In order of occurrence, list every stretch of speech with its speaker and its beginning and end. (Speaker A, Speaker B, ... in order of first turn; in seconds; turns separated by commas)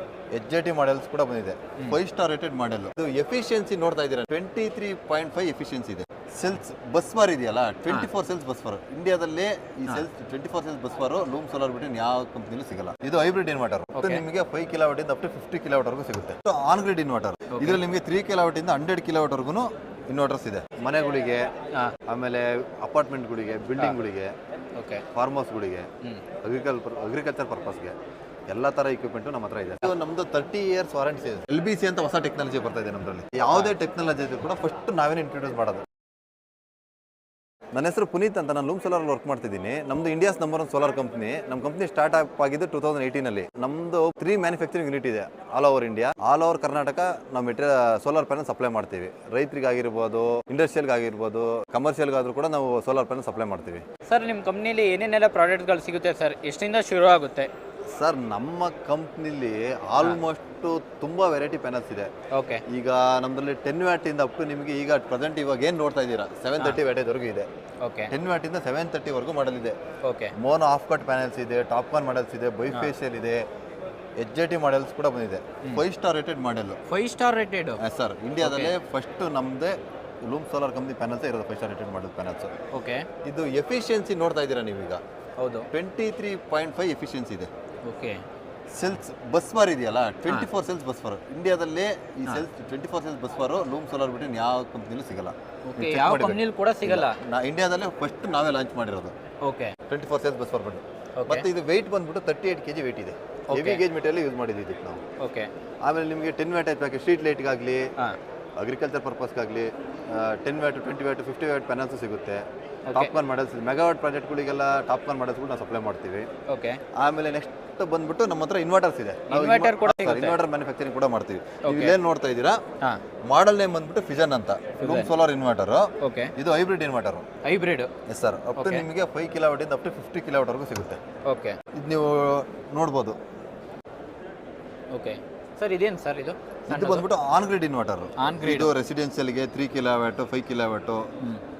Speaker A: 0.3-21.5, Speaker B: 13.9-14.2, Speaker B: 17.5-17.8, Speaker A: 22.1-24.3, Speaker B: 24.7-25.0, Speaker A: 25.1-25.9, Speaker A: 26.4-27.9, Speaker A: 28.5-35.9, Speaker A: 37.7-53.8, Speaker B: 54.1-57.5, Speaker A: 57.9-62.1, Speaker B: 62.3-62.6, Speaker A: 62.7-67.5, Speaker B: 67.8-68.1, Speaker A: 68.1-69.8, Speaker B: 70.0-70.3, Speaker A: 70.3-73.4, Speaker A: 74.2-76.8, Speaker B: 76.9-77.8, Speaker A: 77.8-82.5, Speaker B: 78.4-78.7, Speaker B: 82.7-83.1, Speaker A: 83.2-85.0, Speaker B: 85.4-85.7, Speaker A: 85.7-87.5, Speaker B: 87.8-88.2, Speaker A: 88.7-99.1, Speaker B: 95.7-97.2, Speaker B: 99.4-99.8, Speaker A: 99.9-105.0, Speaker B: 101.2-101.5, Speaker B: 103.5-103.8, Speaker B: 105.2-105.5, Speaker A: 105.8-107.9, Speaker A: 108.6-116.3, Speaker B: 112.9-113.1, Speaker B: 116.5-116.8, Speaker A: 116.9-122.6, Speaker B: 119.3-120.4, Speaker B: 121.6-122.0, Speaker A: 123.2-127.3, Speaker B: 124.8-125.1, Speaker B: 126.0-126.3, Speaker B: 127.4-127.9, Speaker A: 128.1-131.0, Speaker B: 128.6-128.9, Speaker B: 131.2-131.6, Speaker A: 131.7-133.2, Speaker B: 134.9-137.1, Speaker A: 136.7-141.1, Speaker B: 138.2-138.7